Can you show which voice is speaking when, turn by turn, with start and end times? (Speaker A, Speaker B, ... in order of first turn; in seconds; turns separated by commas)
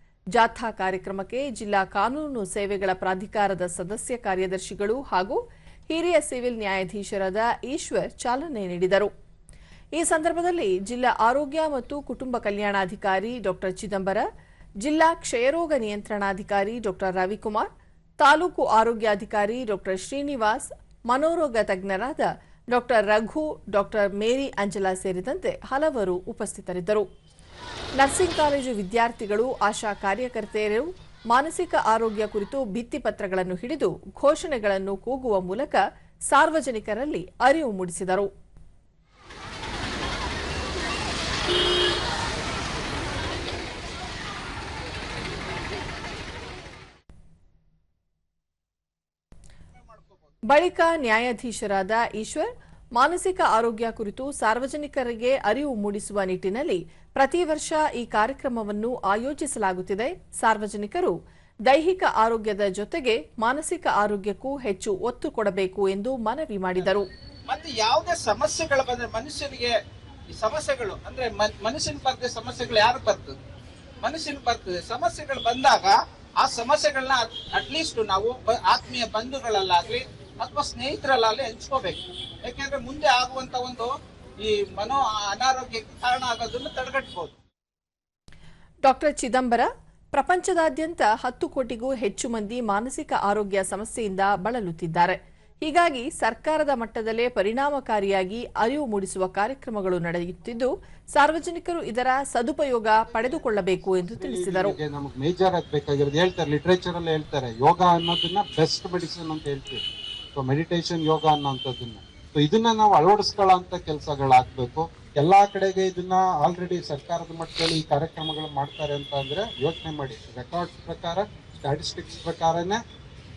Speaker A: 0.3-5.4, Speaker A: 5.9-9.1, Speaker A: 10.0-14.2, Speaker A: 14.8-17.7, Speaker A: 18.2-27.0, Speaker A: 28.0-38.3, Speaker B: 49.8-50.2, Speaker A: 50.5-61.1, Speaker A: 61.6-67.0, Speaker B: 67.5-69.7, Speaker B: 70.3-73.4, Speaker B: 74.0-87.4, Speaker A: 88.8-104.8, Speaker C: 103.0-109.8, Speaker C: 110.3-122.8